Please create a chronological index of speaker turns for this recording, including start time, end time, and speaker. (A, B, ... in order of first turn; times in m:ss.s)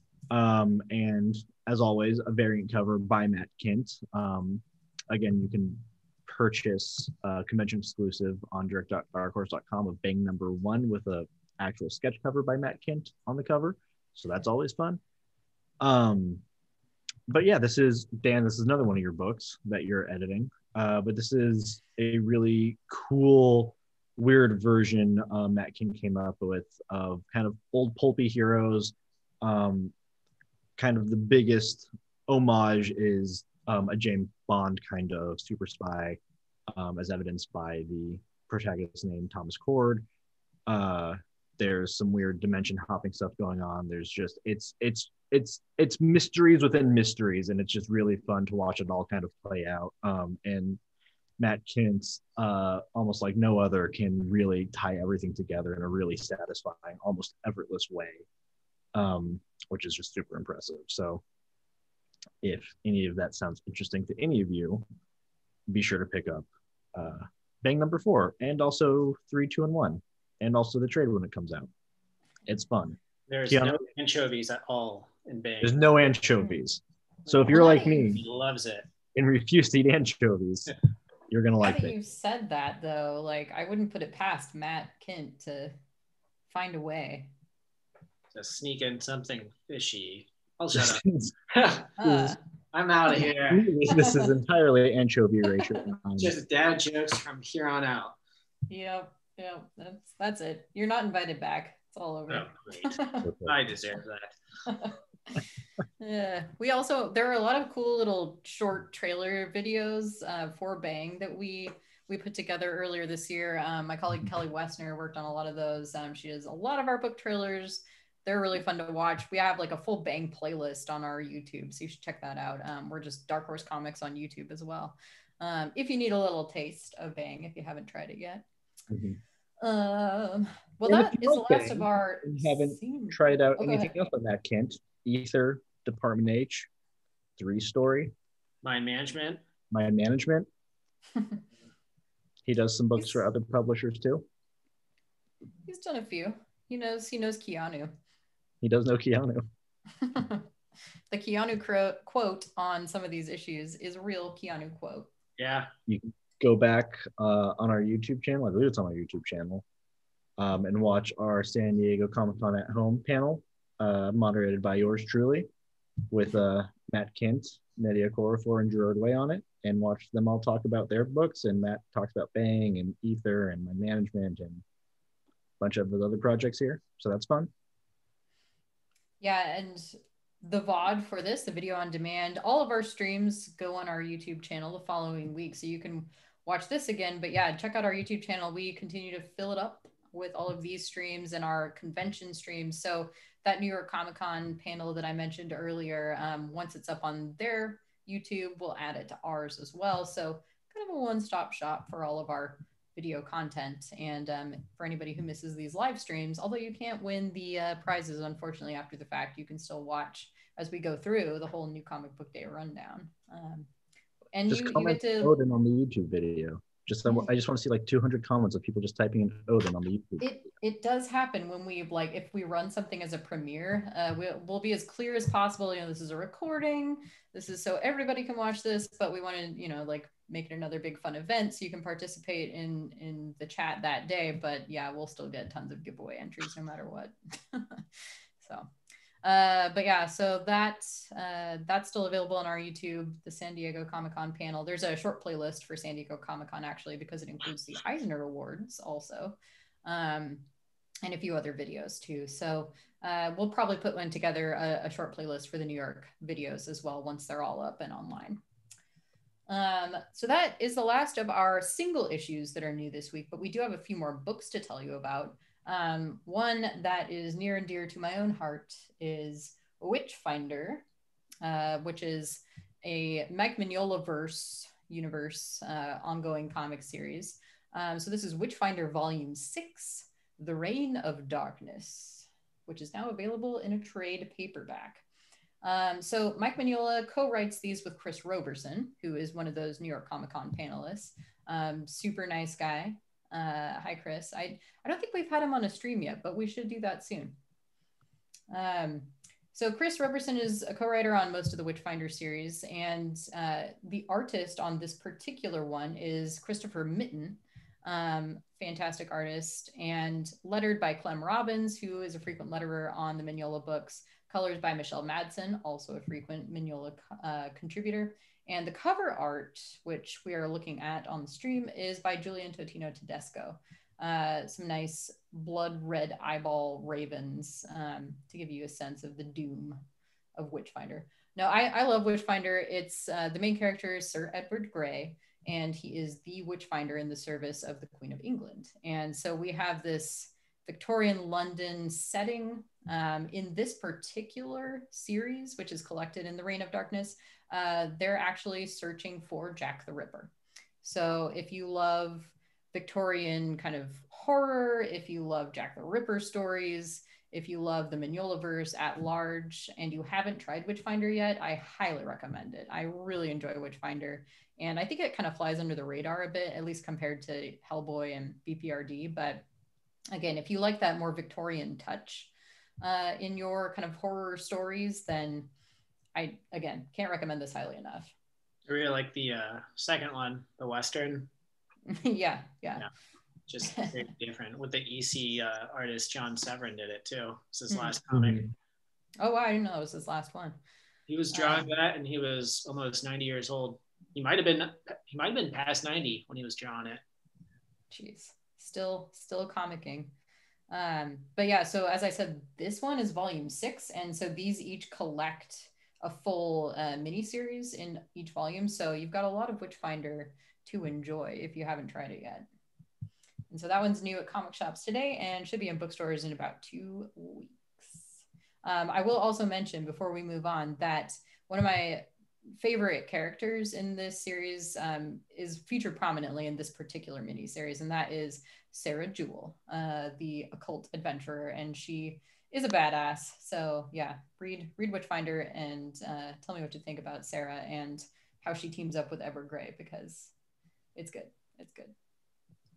0:00.3-0:15.0 A
0:15.8-0:16.4 A
0:17.3-0:29.9 A
0:30.8-0:40.1 A
0:40.7-0:50.8 A
0:51.4-0:58.2 A
0:59.0-1:01.2 A
1:02.4-1:04.8 A
1:05.7-1:11.7 A
1:12.5-1:13.8 A
1:13.3-1:15.8 B
1:15.6-1:18.2 A
1:17.5-1:18.2 C
1:18.1-1:18.9 B
1:19.2-1:20.7 A
1:21.3-1:22.0 A
1:21.6-1:25.8 C
1:26.5-1:27.3 C
1:28.3-1:31.9 B
1:30.8-1:31.4 A
1:32.0-1:32.4 C
1:32.0-1:32.4 A
1:32.7-1:33.7 B
1:33.5-1:36.3 A
1:33.9-1:34.2 C
1:36.2-1:38.2 B
1:38.7-1:43.3 C
1:42.3-1:44.4 B
1:43.2-1:43.6 A
1:44.7-1:45.0 C
1:46.0-2:08.4 C
2:08.9-2:09.2 A
2:09.6-2:14.0 C
2:10.8-2:16.7 A
2:17.4-2:18.1 A
2:18.6-2:19.4 B
2:19.7-2:20.5 A
2:22.5-2:24.2 A
2:23.0-2:23.2 C
2:25.7-2:27.9 C
2:28.6-2:29.4 A
2:30.0-2:30.5 C
2:31.1-2:35.1 C
2:35.4-2:35.7 B
2:35.9-2:39.6 A
2:40.4-2:45.5 A
2:46.1-2:54.6 A
2:55.6-2:57.5 A
2:59.2-3:33.7 C
3:34.3-3:35.4 C
3:34.5-3:40.2 A
3:37.0-3:37.3 C
3:40.2-3:57.8 C
3:58.4-3:58.7 C
3:59.2-4:10.4 C
4:11.0-4:18.4 C
4:19.5-4:30.8 C
4:31.4-4:45.0 C
4:45.6-4:57.4 C
4:58.5-5:29.8 C
5:30.4-6:09.4 C
6:10.1-6:15.5 C
6:16.2-6:18.1 C
6:18.7-6:21.3 B
6:21.9-6:22.8 C
6:23.5-6:28.4 B
6:23.7-6:23.9 C
6:27.7-6:28.0 C
6:28.1-6:28.5 A
6:29.2-6:30.6 C
6:31.1-6:37.0 B
6:31.3-6:31.7 C
6:37.9-6:40.1 C
6:40.7-6:52.5 C
6:53.5-7:02.1 C
7:02.6-7:20.3 C
7:21.0-7:21.9 C